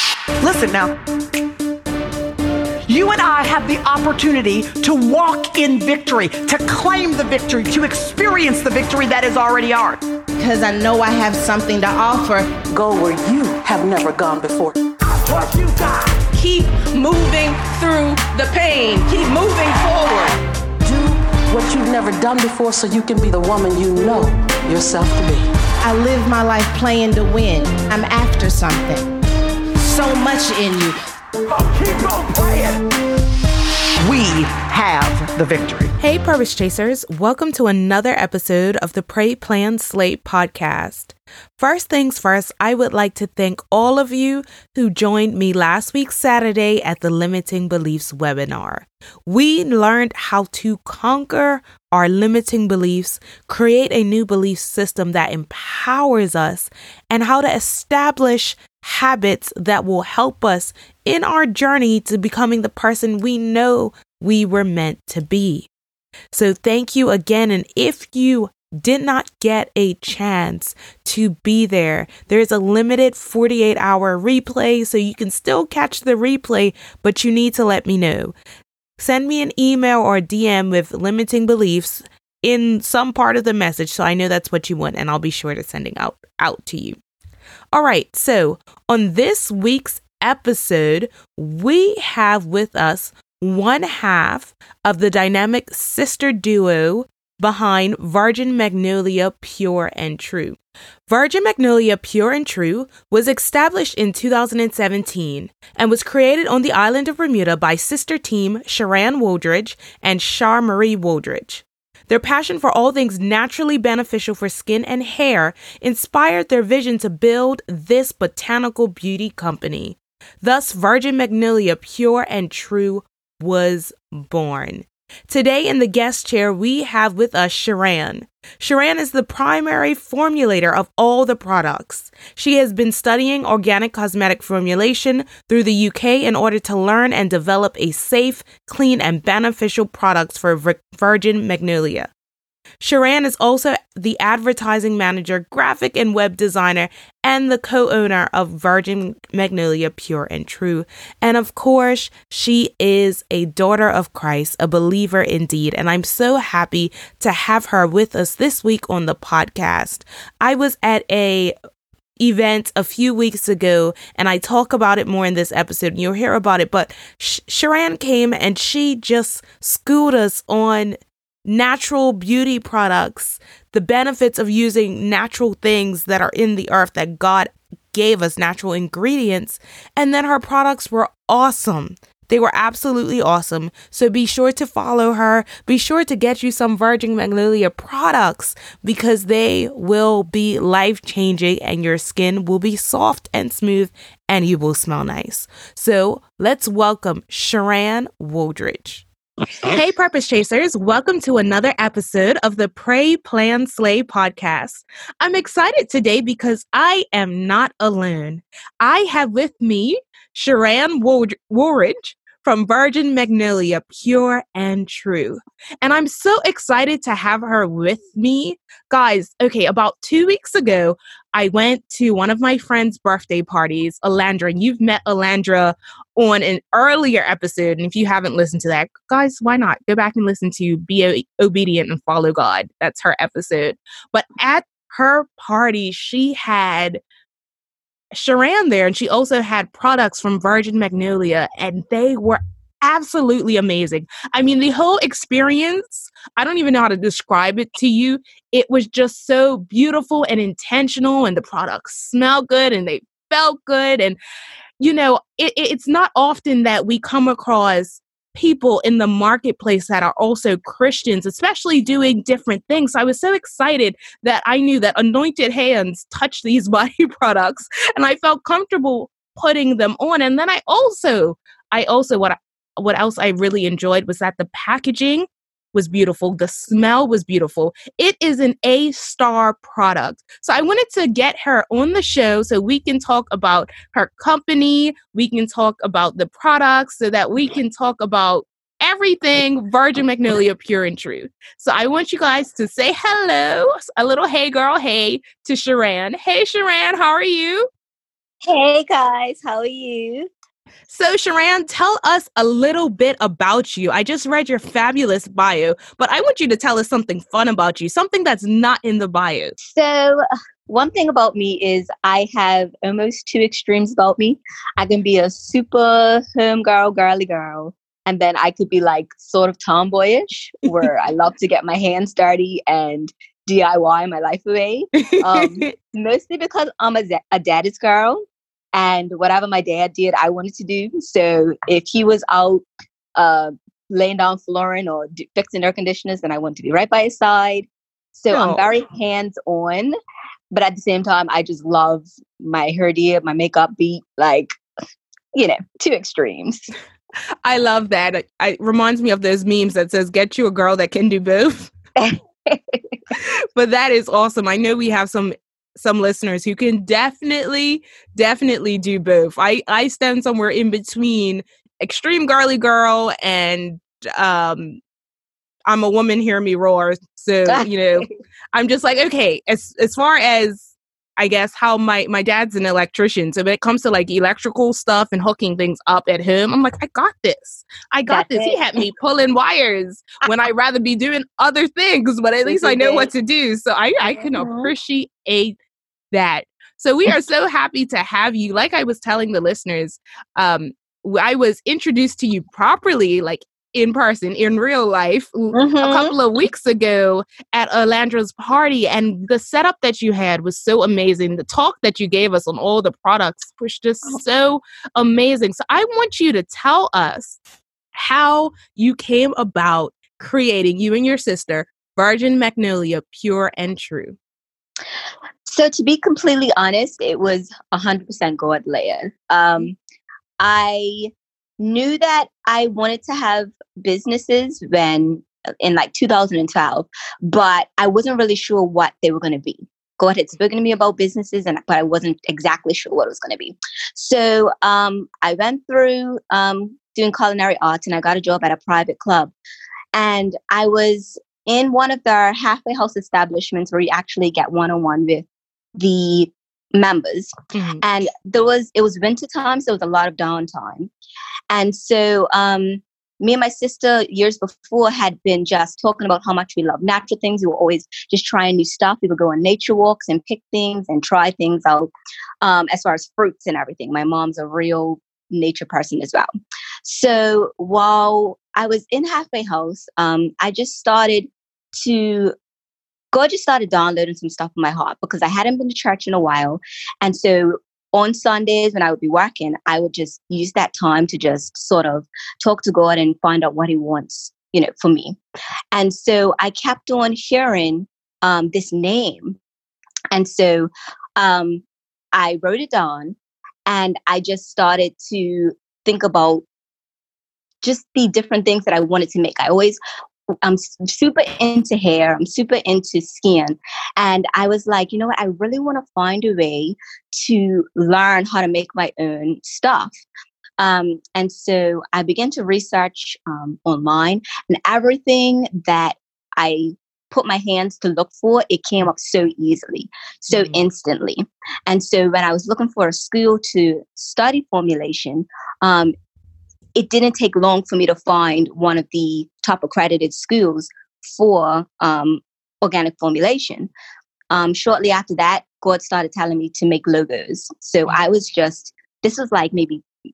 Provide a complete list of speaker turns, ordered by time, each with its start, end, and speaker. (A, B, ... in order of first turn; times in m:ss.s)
0:00.4-0:01.0 A
0:02.9-0:10.0 A
0:10.4-0:12.6 B
0:12.7-0:15.0 C
0:15.2-0:16.0 A
0:16.3-0:20.4 B
0:20.8-0:25.5 C
0:25.8-0:29.1 B
0:29.8-0:31.0 B
0:31.5-0:32.8 A
0:34.0-0:35.9 A
0:36.0-1:05.7 D
1:06.3-1:18.4 D
1:19.0-1:27.0 D
1:27.7-2:22.1 D
2:22.8-2:41.6 D
2:42.2-3:19.1 D
3:19.7-3:57.0 D
3:58.1-4:14.2 D
4:14.8-4:57.7 D
4:58.5-5:00.3 E
5:00.9-5:09.5 D
5:09.6-5:28.2 E
5:25.1-5:25.7 D
5:28.7-5:32.6 E
5:33.2-5:40.0 E
5:38.3-5:38.6 D
5:40.5-5:44.5 E
5:45.4-5:46.6 E
5:47.4-5:51.7 D
5:52.0-5:52.8 E
5:53.1-6:04.8 D
6:05.7-6:25.6 D
6:07.5-6:08.0 E
6:18.1-6:18.6 E
6:22.5-6:23.1 E
6:24.0-6:24.7 E
6:26.1-6:47.4 D
6:35.5-6:36.1 E
6:47.9-6:54.2 D
6:55.5-6:59.8 E
7:00.4-7:19.3 E
7:20.0-7:25.2 E
7:25.8-7:27.3 E
7:27.5-7:27.8 D
7:27.8-7:30.9 E
7:31.5-7:41.9 E
7:42.4-7:46.3 E
7:46.8-7:52.4 E
7:53.1-8:05.2 E
8:05.7-8:09.4 E
8:10.1-8:13.2 E
8:13.7-8:16.4 E
8:17.6-8:19.8 E
8:20.4-8:30.0 E
8:30.6-8:45.9 E
8:40.3-8:40.6 D
8:46.8-8:53.7 E
8:54.3-8:59.9 E